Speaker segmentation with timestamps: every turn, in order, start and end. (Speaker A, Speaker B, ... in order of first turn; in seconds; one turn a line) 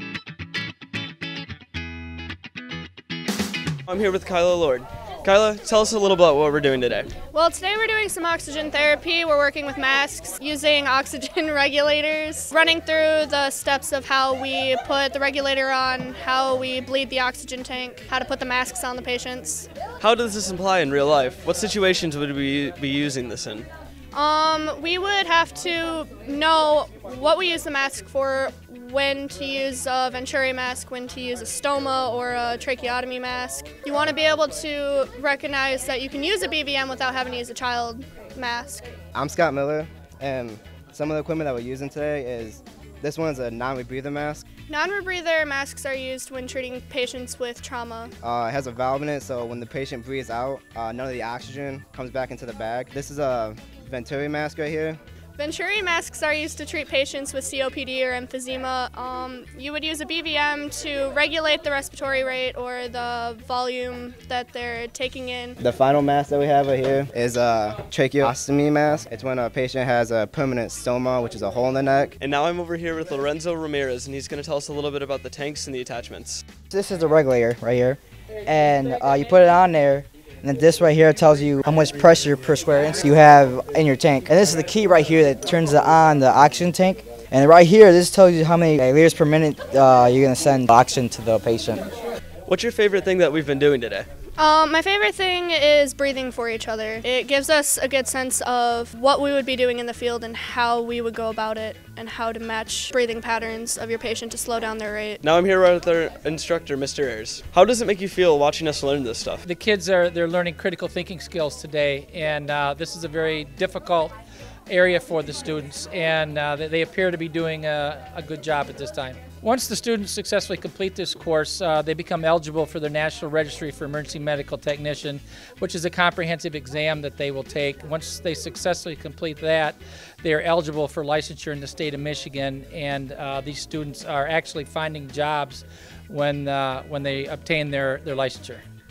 Speaker A: 3.9-7.1
Speaker B: 7.3-19.7
Speaker A: 20.0-23.7
Speaker B: 24.1-38.9
Speaker C: 39.1-44.6
Speaker B: 44.6-48.1
Speaker C: 48.2-55.0
Speaker B: 55.4-65.6
Speaker C: 65.6-72.2
Speaker A: 72.2-76.4
Speaker D: 76.7-91.9
Speaker A: 92.5-94.1
Speaker B: 94.4-105.2
Speaker A: 105.2-109.4
Speaker E: 109.5-114.1
Speaker E: 114.7-138.6